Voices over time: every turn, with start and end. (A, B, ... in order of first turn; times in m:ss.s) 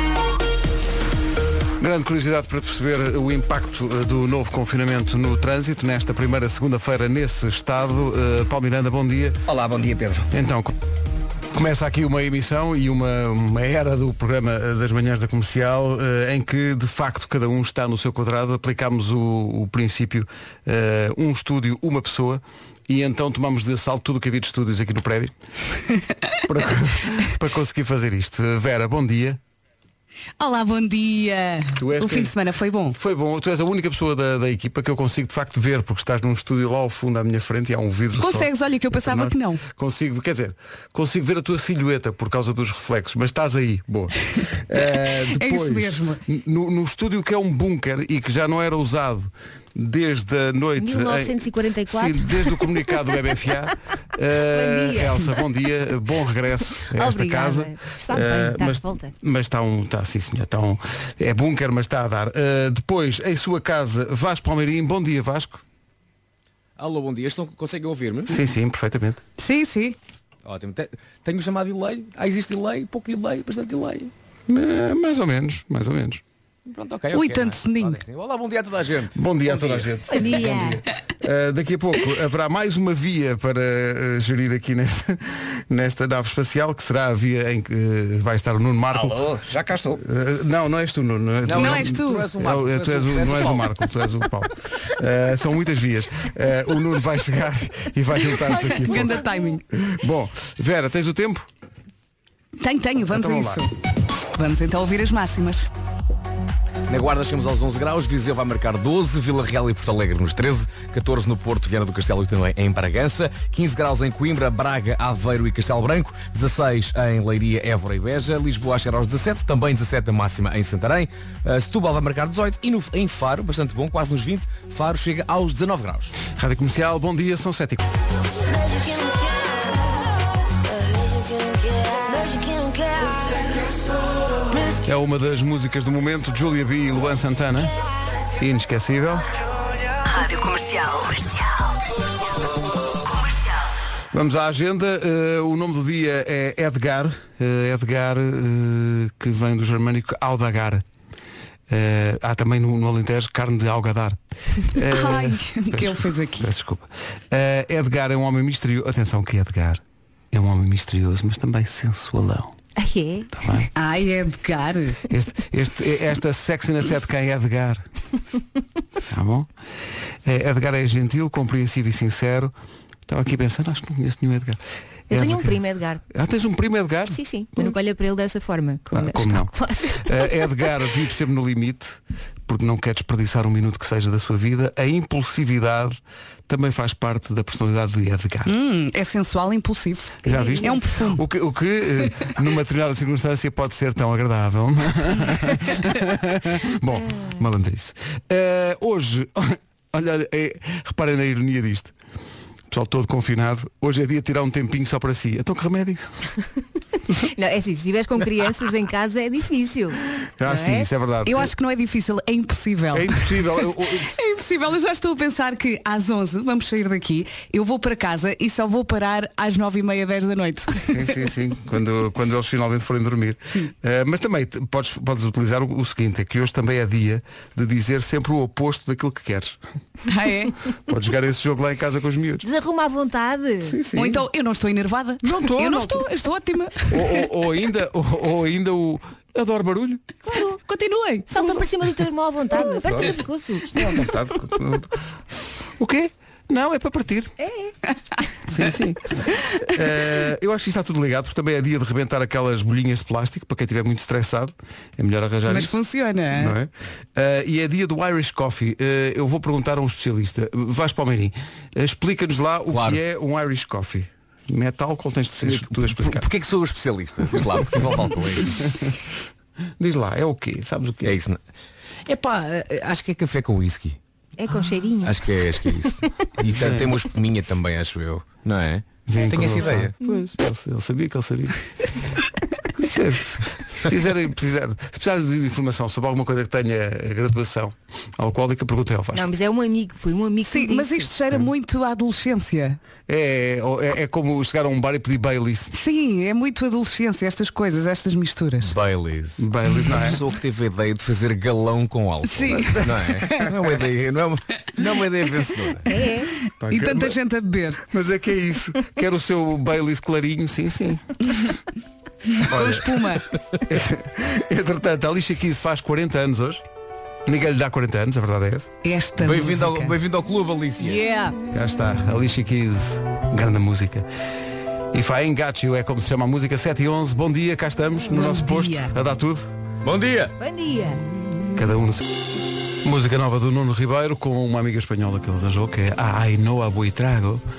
0:01.8-0:09.4 A
0:09.5-0:10.3 B
0:10.3-0:10.7 A
0:11.5-0:25.3 A
0:26.4-0:29.4 A
0:30.4-0:33.0 C
0:31.8-0:32.4 A
0:32.9-1:05.6 A
0:38.2-0:39.6 C
0:45.0-0:46.2 C
0:50.8-0:52.7 D
0:54.5-0:55.4 D
0:56.9-0:59.1 D
1:06.8-1:08.4 E
1:08.3-1:09.2 A
1:09.4-1:10.0 C
1:10.4-1:14.1 E
1:14.5-1:16.2 A
1:16.7-1:19.9 E
1:17.1-1:18.0 C
1:19.1-1:29.2 A
1:20.1-1:20.8 D
1:28.9-1:30.0 B
1:30.0-1:41.5 A
1:31.4-1:33.8 E
1:31.5-1:32.3 C
1:38.5-1:39.6 C
1:38.7-1:39.2 D
1:42.6-1:43.7 C
1:43.0-1:43.6 A
1:44.3-1:45.7 C
1:46.9-2:06.1 E
2:06.3-2:07.9 A
2:12.1-2:12.9 D
2:14.8-2:17.7 A
2:18.4-2:19.2 A
2:20.1-2:21.3 C
2:24.1-2:30.8 A
2:31.7-2:42.6 A
2:34.8-2:36.5 C
2:42.8-2:43.3 D
2:43.3-2:43.7 A
2:43.8-2:45.0 C
2:45.1-2:47.8 A
2:49.0-2:49.5 A
2:50.2-2:52.5 A
2:53.1-2:55.6 A
2:55.1-2:56.0 D
2:56.1-2:57.7 A
2:57.1-3:00.2 D
2:58.9-3:08.5 A
3:08.4-3:11.2 C
3:10.2-3:10.7 D
3:10.2-3:21.9 A
3:22.7-3:26.0 A
3:27.2-3:30.9 D
3:30.4-3:31.5 A
3:31.2-3:41.1 C
3:32.9-3:34.2 A
3:40.7-3:49.6 A
3:50.1-3:50.5 C
3:50.9-3:52.4 A
3:52.4-3:53.8 D
3:53.6-3:54.2 A
3:53.9-3:57.2 C
3:55.2-3:56.1 A
3:56.9-4:00.0 A
4:00.2-4:00.6 D
4:00.4-4:01.3 C
4:01.3-4:04.1 D
4:02.8-4:03.2 A
4:03.7-4:04.9 A
4:05.8-4:07.3 A
4:07.4-4:07.7 D
4:08.5-4:15.8 A
4:15.5-4:16.6 C
4:16.3-4:26.3 A
4:22.7-4:23.0 E
4:25.4-4:28.6 E
4:28.6-4:28.9 A
4:29.8-4:31.2 A
4:31.0-4:31.4 E
4:32.1-4:34.0 E
4:34.4-4:36.0 D
4:35.0-4:39.9 E
4:36.4-4:37.0 A
4:39.1-4:41.7 A
4:39.4-4:40.2 D
4:42.7-4:49.3 A
4:49.1-4:51.1 D
4:50.4-4:52.8 C
4:53.1-4:55.7 A
4:55.7-4:58.7 C
4:58.6-5:05.9 E
4:59.4-5:00.2 A
5:02.3-5:03.5 C
5:02.5-5:03.5 A
5:05.9-5:06.3 D
5:06.6-5:07.2 A
5:06.7-5:07.8 C
5:07.9-5:11.2 A
5:12.3-5:13.3 C
5:12.4-5:13.0 A
5:13.6-5:16.6 A
5:17.2-5:18.7 A
5:18.8-5:19.9 C
5:19.2-5:21.0 E
5:20.8-5:21.4 D
5:21.5-5:24.1 A
5:24.9-5:29.4 A
5:28.1-5:28.9 C
5:29.8-5:30.3 E
5:30.4-5:31.1 D
5:31.5-5:32.1 A
5:32.8-5:37.4 A